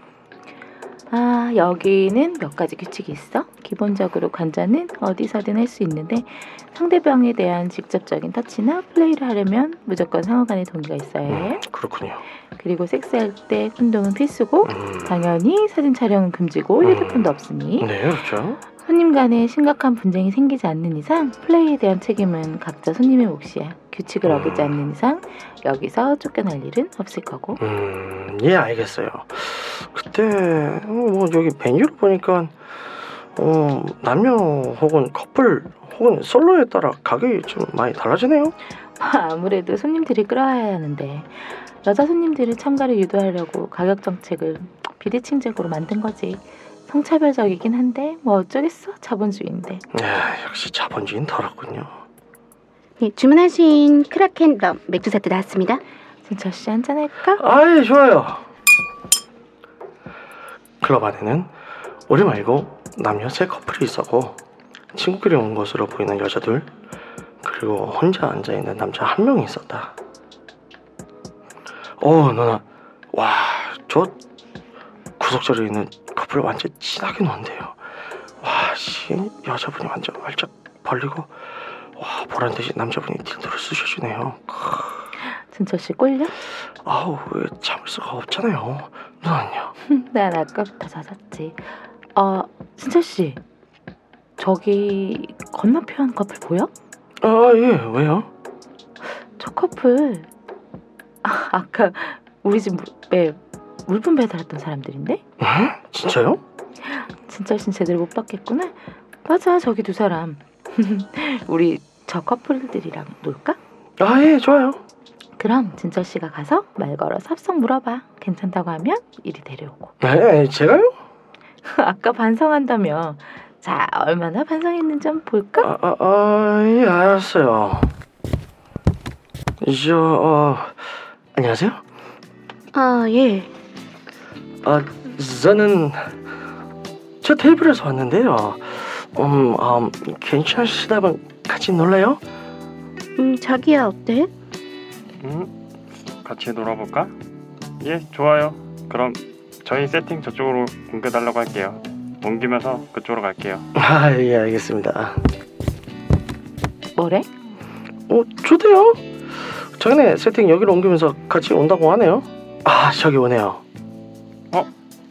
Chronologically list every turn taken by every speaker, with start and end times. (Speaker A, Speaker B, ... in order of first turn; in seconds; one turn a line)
Speaker A: 1.1-11.6
Speaker B: 11.3-12.2
Speaker A: 12.6-17.9
Speaker B: 14.6-15.2
Speaker B: 16.8-18.6
Speaker A: 18.8-27.6
Speaker B: 24.2-24.7
Speaker B: 27.6-32.5
Speaker B: 33.4-38.5
Speaker A: 39.0-49.8
Speaker B: 49.9-51.9
Speaker C: 53.0-55.8
Speaker A: 56.2-57.4
Speaker B: 57.4-58.4
Speaker B: 60.8-61.5
Speaker B: 62.1-64.4
Speaker B: 64.9-66.7
Speaker B: 67.4-69.9
Speaker B: 72.0-74.2
Speaker B: 75.2-77.7
Speaker B: 78.4-81.3
Speaker B: 81.9-85.0
Speaker A: 85.5-86.3
Speaker B: 86.8-89.7
Speaker A: 89.8-91.6
Speaker A: 92.1-93.4
Speaker A: 94.4-96.7
Speaker B: 97.2-98.3
Speaker A: 99.4-100.3
Speaker A: 101.2-105.2
Speaker B: 105.4-106.4
Speaker A: 106.8-108.7
Speaker A: 109.2-113.6
Speaker B: 114.0-114.8
Speaker A: 115.4-119.9
Speaker B: 120.0-120.9
Speaker A: 121.6-125.7
Speaker B: 125.6-127.9
Speaker B: 129.6-130.7
Speaker B: 131.3-131.8
Speaker C: 132.7-133.5
Speaker B: 134.6-136.1
Speaker B: 137.2-142.2
Speaker C: 143.2-144.3
Speaker D: 145.2-145.5
Speaker D: 146.2-147.1
Speaker D: 147.8-153.7
Speaker B: 153.7-155.2
Speaker A: 156.9-157.3
Speaker B: 158.1-159.0
Speaker B: 159.8-163.6